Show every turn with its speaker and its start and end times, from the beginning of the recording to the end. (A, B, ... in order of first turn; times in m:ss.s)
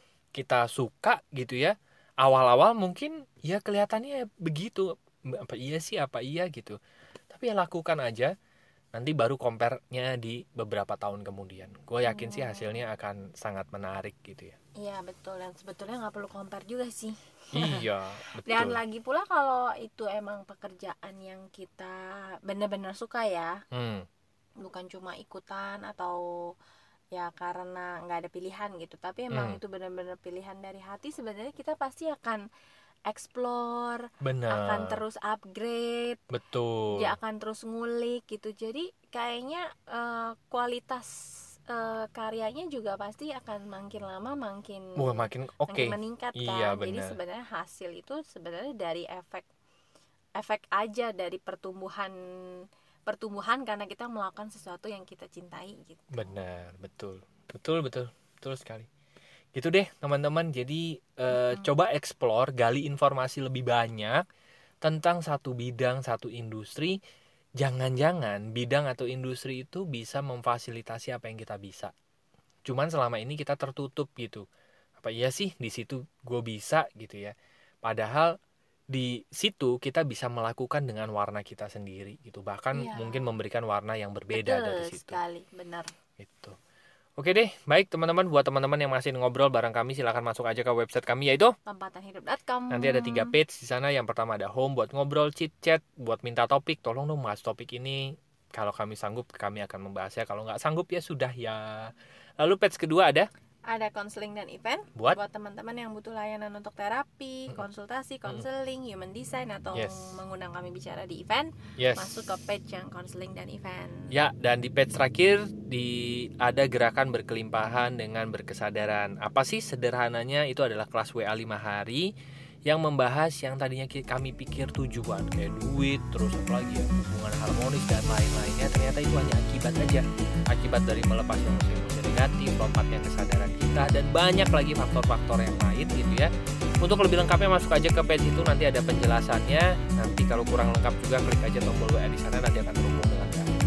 0:00.4-0:06.8 A
0:07.3-0:08.3 A
0:08.9-0:14.6 A
0:12.1-0:12.8 B
0:14.8-0:17.8 B
0:17.5-0:18.8 A
0:18.4-0:23.5 B
0:23.7-0:24.1 A
0:24.6-0:26.2 B
0:27.1-0:32.4 B
0:29.3-0:29.6 A
0:33.1-0:36.2 B
0:34.2-0:35.0 A
0:36.3-0:37.1 A
0:37.0-0:41.1 B
0:41.7-0:49.5 B
0:45.0-0:47.2 A
0:50.4-0:52.2 B
0:53.1-0:56.3 B
0:56.1-0:58.9 A
0:59.6-1:04.2 A
1:01.3-1:01.7 B
1:04.8-1:07.0 A
1:07.6-1:11.9 A
1:12.7-1:14.5 A
1:15.0-1:18.3 A
1:18.9-1:25.2 A
1:22.8-1:23.3 B
1:24.3-1:25.9 B
1:26.2-1:26.6 A
1:27.2-1:31.5 A
1:31.7-1:33.3 B
1:32.7-1:43.3 A
1:43.7-1:54.1 B
1:49.8-1:50.1 A
1:51.8-1:52.2 A
1:54.1-2:02.1 A
2:02.7-2:16.3 A
2:16.8-2:23.5 A